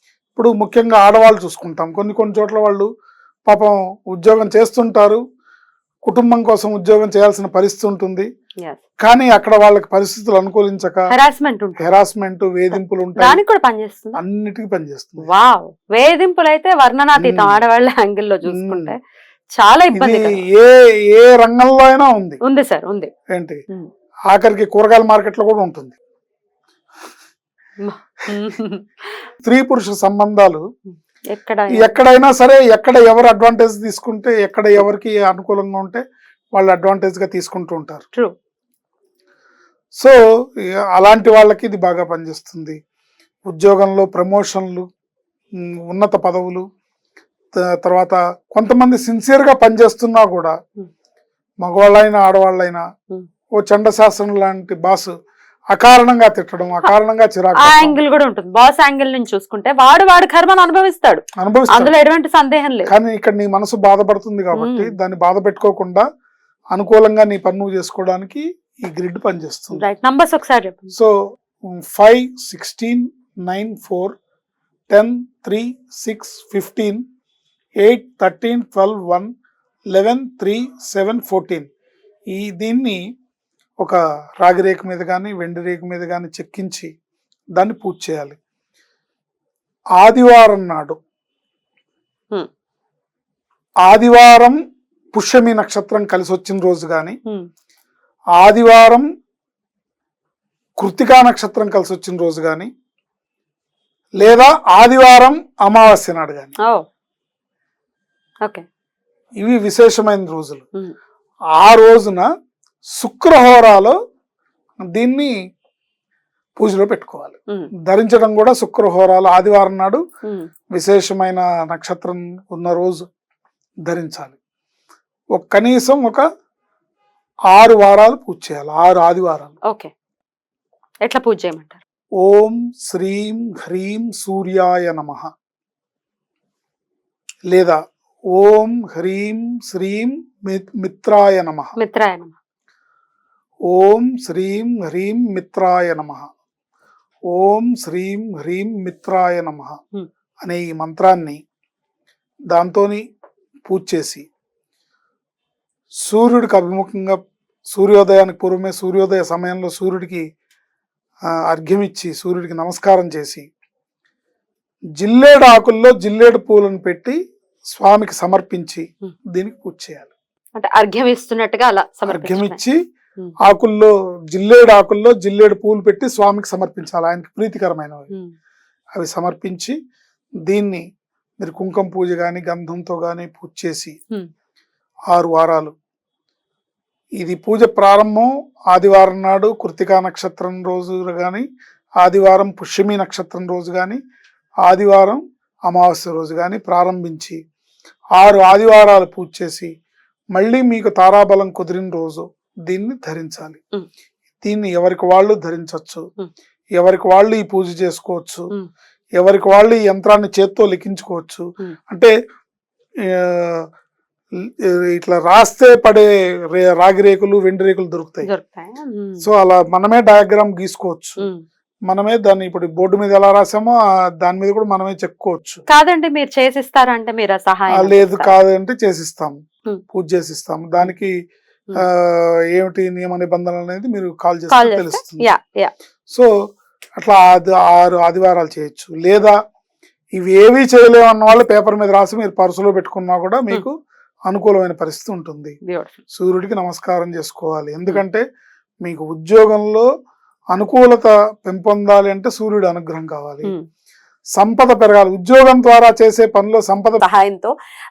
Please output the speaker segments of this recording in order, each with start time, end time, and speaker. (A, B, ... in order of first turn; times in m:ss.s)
0:00.4-0:02.9 A
0:03.5-0:05.2 A
0:06.1-0:08.3 A
0:09.0-0:11.0 A
0:11.1-0:11.9 B
0:11.8-0:13.4 A
0:13.2-0:14.2 B
0:14.2-0:15.3 A
0:15.2-0:19.0 B
0:17.2-0:17.6 A
0:18.5-0:18.9 A
0:19.6-0:20.4 B
0:20.0-0:22.4 A
0:22.4-0:23.1 B
0:24.3-0:25.9 A
0:27.8-0:28.9 B
0:29.4-0:30.6 A
0:31.3-0:32.0 B
0:31.8-0:36.0 A
0:36.6-0:38.0 A
0:41.0-0:42.8 A
0:43.5-0:44.9 A
0:45.9-0:46.6 A
0:47.8-0:50.5 A
0:51.6-0:52.8 A
0:53.6-0:55.1 A
0:55.7-0:58.0 A
0:57.6-1:02.9 B
1:01.4-1:01.9 A
1:02.9-1:06.0 A
1:04.6-1:05.0 B
1:06.7-1:09.8 A
1:09.7-1:10.9 B
1:11.9-1:14.1 A
1:14.9-1:17.0 A
1:17.8-1:19.3 A
1:19.9-1:21.7 A
1:22.3-1:23.0 A
1:23.8-1:26.9 A
1:27.6-1:28.4 A
1:30.0-1:31.0 A
1:33.9-1:34.6 A
1:35.1-1:37.2 A
1:38.4-1:39.0 A
1:40.8-1:42.7 A
1:44.2-1:46.5 A
1:49.4-1:50.6 A
1:51.6-1:52.3 A
1:53.0-1:54.0 A
1:54.9-1:55.3 A
1:56.6-1:57.4 A
1:57.9-2:00.0 A
2:00.7-2:03.0 A
2:03.9-2:04.3 A
2:05.4-2:06.2 A
2:07.5-2:09.5 A
2:11.0-2:11.8 B
2:12.2-2:15.3 A
2:17.5-2:17.8 A
2:18.4-2:21.7 A
2:21.8-2:22.4 B
2:23.7-2:26.3 A
2:27.3-2:29.8 A
2:30.4-2:31.4 A
2:32.5-2:33.0 A
2:33.7-2:34.3 A
2:36.0-2:37.2 A
2:37.7-2:40.2 A
2:41.5-2:43.4 A
2:45.0-2:47.2 A
2:47.7-2:50.1 A
2:50.6-2:52.6 B
2:52.1-2:52.8 A
2:53.5-2:58.1 A
2:59.0-2:59.8 A
3:00.5-3:00.8 A
3:01.4-3:04.0 A
3:05.1-3:05.7 A
3:07.2-3:11.5 A
3:12.0-3:14.0 A
3:14.7-3:17.4 A
3:18.2-3:19.7 A
3:20.4-3:23.6 A
3:24.4-3:26.0 A
3:26.8-3:28.5 A
3:29.2-3:32.1 A
3:33.1-3:33.6 A
3:34.9-3:38.3 A
3:38.2-3:39.2 B
3:39.2-3:41.3 A
3:41.9-3:45.6 A
3:45.7-3:48.4 B
3:47.7-3:49.4 A
3:49.9-3:51.1 A
3:51.8-3:55.3 A
3:54.5-3:55.7 B
3:57.0-3:59.4 A
4:00.2-4:03.8 A
4:04.3-4:05.6 A
4:05.7-4:06.0 B
4:06.1-4:08.2 A
4:08.8-4:09.9 A
4:10.5-4:13.5 A
4:14.4-4:17.0 A
4:17.0-4:17.5 B